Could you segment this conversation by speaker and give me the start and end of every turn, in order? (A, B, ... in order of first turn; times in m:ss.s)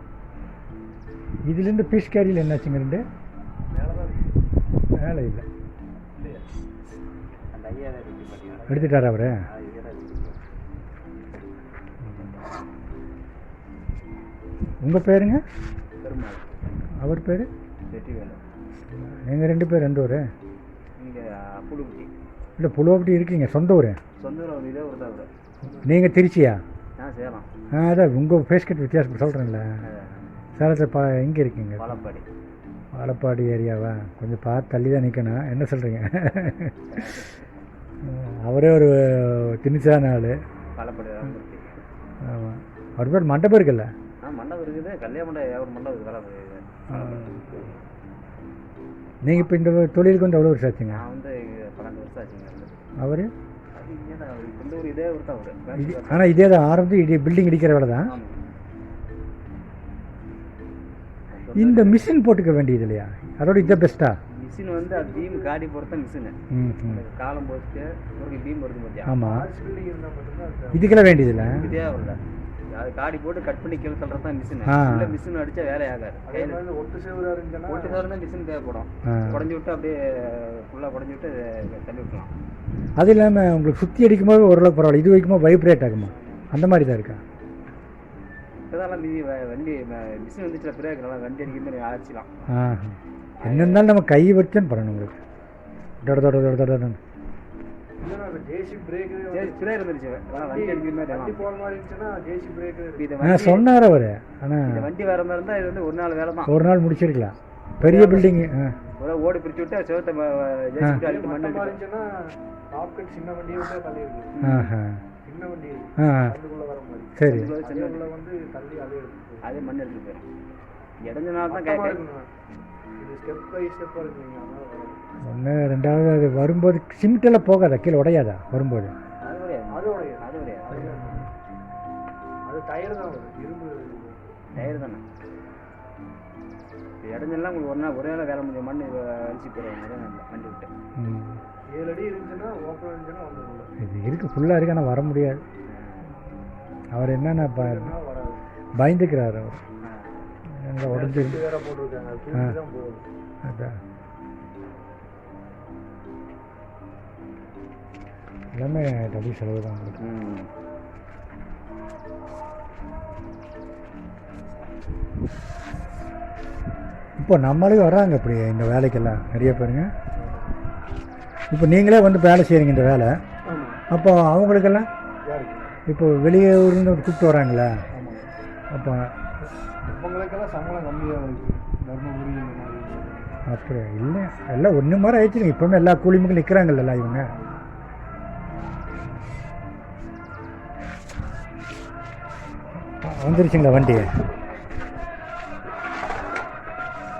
0:01.4-0:03.0 A
0:03.8-0:04.2 B
0:04.9-0:05.4 A
0:06.2-0:06.4 C
0:07.5-0:10.4 C
0:08.6-0:08.9 B
0:08.7-0:09.4 A
0:14.8-0:15.4 A
0:16.0-0:16.5 C
0:17.0-0:17.5 A
0:17.9-0:18.4 C
0:19.1-0:20.3 A
0:21.0-0:22.1 C
0:22.6-0:24.0 A
0:24.2-0:25.3 C
0:25.6-0:26.0 B
0:25.8-0:26.6 A
0:27.0-0:27.5 C
0:27.7-0:29.7 A
0:29.8-0:30.3 C
0:30.6-0:31.9 A
0:31.8-0:32.2 C
0:32.9-0:37.0 A
0:36.9-0:37.5 C
0:38.0-0:40.4 A
0:40.8-0:41.8 C
0:42.2-0:43.9 A
0:44.2-0:47.8 C
0:46.9-0:47.6 A
0:49.2-0:51.0 A
0:49.2-0:49.5 C
0:50.9-0:52.8 C
0:53.0-0:53.3 A
0:53.7-0:56.4 C
0:55.8-0:58.1 A
0:58.0-0:58.4 C
1:01.3-1:02.1 C
1:01.5-1:04.2 A
1:04.3-1:09.2 C
1:04.8-1:05.6 B
1:06.5-1:07.0 A
1:09.0-1:09.5 A
1:09.2-1:11.1 B
1:10.7-1:11.7 A
1:11.4-1:12.2 C
1:12.7-1:16.6 C
1:14.7-1:15.2 A
1:16.2-1:18.0 B
1:17.7-1:22.3 C
1:19.0-1:19.4 A
1:23.0-1:27.2 A
1:28.6-1:32.3 C
1:32.5-1:35.2 A
1:33.4-1:33.9 C
1:36.0-1:37.0 A
1:38.0-1:39.8 B
1:39.3-1:41.5 C
1:40.3-1:43.1 B
1:43.0-1:43.7 C
1:43.2-1:44.8 A
1:44.7-1:46.6 C
1:46.4-1:48.7 A
1:47.8-1:48.3 C
1:48.9-1:51.8 C
1:50.9-1:54.4 B
1:54.4-1:54.7 C
1:54.4-1:55.0 A
1:55.2-1:59.7 B
1:56.0-1:56.3 A
1:57.2-1:57.5 A
1:57.2-1:58.0 C
1:59.4-2:00.3 C
2:01.0-2:02.0 C
2:01.5-2:02.3 B
2:03.0-2:05.0 B
2:05.2-2:08.9 A
2:09.2-2:11.1 C
2:09.7-2:11.3 B
2:12.4-2:14.2 B
2:14.5-2:15.0 C
2:17.0-2:20.7 C
2:21.0-2:21.4 A
2:21.7-2:23.7 B
2:23.8-2:25.4 A
2:25.7-2:26.1 C
2:26.9-2:27.9 A
2:27.4-2:28.4 B
2:28.8-2:29.6 A
2:29.8-2:30.2 C
2:30.6-2:31.4 A
2:30.8-2:33.0 B
2:33.4-2:33.8 A
2:38.6-2:40.0 A
2:40.0-2:40.5 C
2:47.2-2:49.9 A
2:50.2-2:50.5 B
2:51.5-2:53.1 A
2:53.4-2:53.8 B
2:53.9-2:54.9 A
2:55.2-2:55.8 B
2:55.9-2:57.7 A
2:57.9-2:58.3 B
2:58.7-2:59.1 A
2:59.9-3:03.4 B
3:03.5-3:07.3 A
3:07.2-3:07.6 B
3:13.0-3:14.1 A